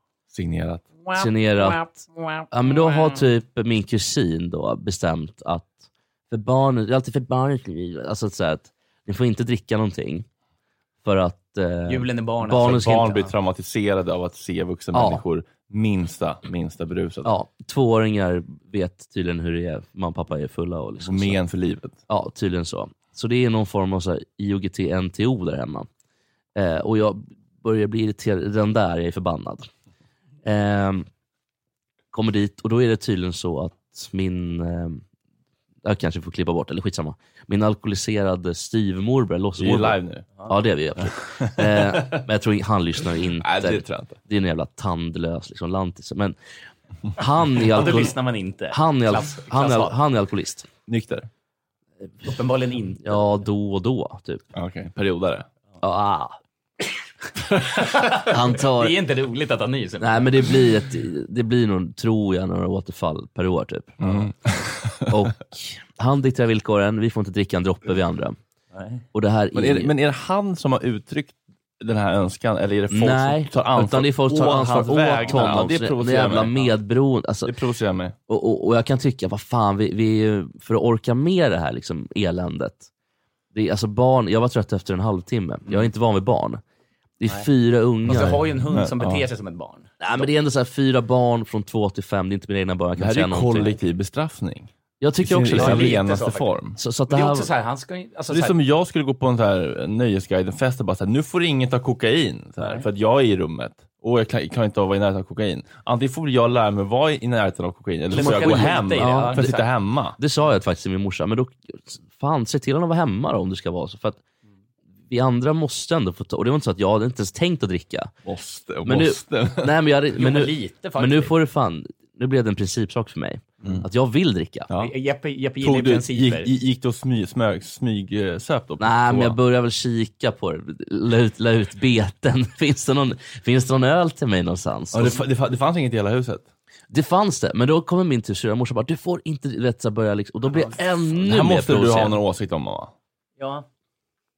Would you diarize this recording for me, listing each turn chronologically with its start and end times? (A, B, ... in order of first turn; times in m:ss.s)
0:00.3-0:00.8 A
0:01.1-0:03.2 B
0:01.1-0:01.8 C
0:02.5-0:10.2 C
0:11.0-0:13.2 C
0:11.9-0:13.2 B
0:12.5-0:17.3 A
0:14.9-0:15.2 C
0:17.2-0:21.4 C
0:21.0-0:22.0 A
0:22.1-0:25.9 C
0:26.6-0:29.7 C
0:30.4-0:31.1 C
0:32.1-0:35.0 C
0:35.8-0:46.4 C
0:39.6-0:40.3 A
0:41.0-0:42.2 A
0:43.4-0:44.2 A
0:47.2-0:48.2 C
0:47.5-0:50.0 B
0:48.7-0:50.7 C
0:50.9-0:51.3 A
0:52.2-0:53.3 B
0:53.0-0:54.4 C
0:54.5-0:55.5 A
0:55.8-0:56.4 C
0:57.5-1:00.6 B
0:58.1-0:59.0 C
1:00.0-1:04.0 C
1:04.0-1:05.1 A
1:05.1-1:08.4 C
1:08.7-1:09.0 B
1:09.1-1:09.9 C
1:09.5-1:16.6 A
1:12.9-1:17.5 C
1:17.4-1:18.2 A
1:18.3-1:22.9 C
1:23.5-1:26.6 C
1:27.2-1:28.4 C
1:28.1-1:30.2 B
1:28.7-1:29.2 A
1:30.0-1:33.8 C
1:33.0-1:34.7 A
1:35.0-1:36.0 C
1:35.2-1:36.8 A
1:35.5-1:36.5 B
1:36.8-1:37.5 C
1:37.1-1:38.5 B
1:38.3-1:50.2 A
1:42.6-1:42.8 B
1:48.1-1:49.6 B
1:48.1-1:49.5 C
1:50.2-1:54.2 C
1:55.1-1:58.1 C
1:58.2-1:59.7 A
1:58.8-2:04.7 C
2:00.2-2:01.3 B
2:04.8-2:06.5 B
2:05.6-2:09.4 A
2:08.8-2:15.2 C
2:14.9-2:16.5 A
2:16.9-2:22.2 C
2:21.2-2:22.9 A
2:23.4-2:23.6 B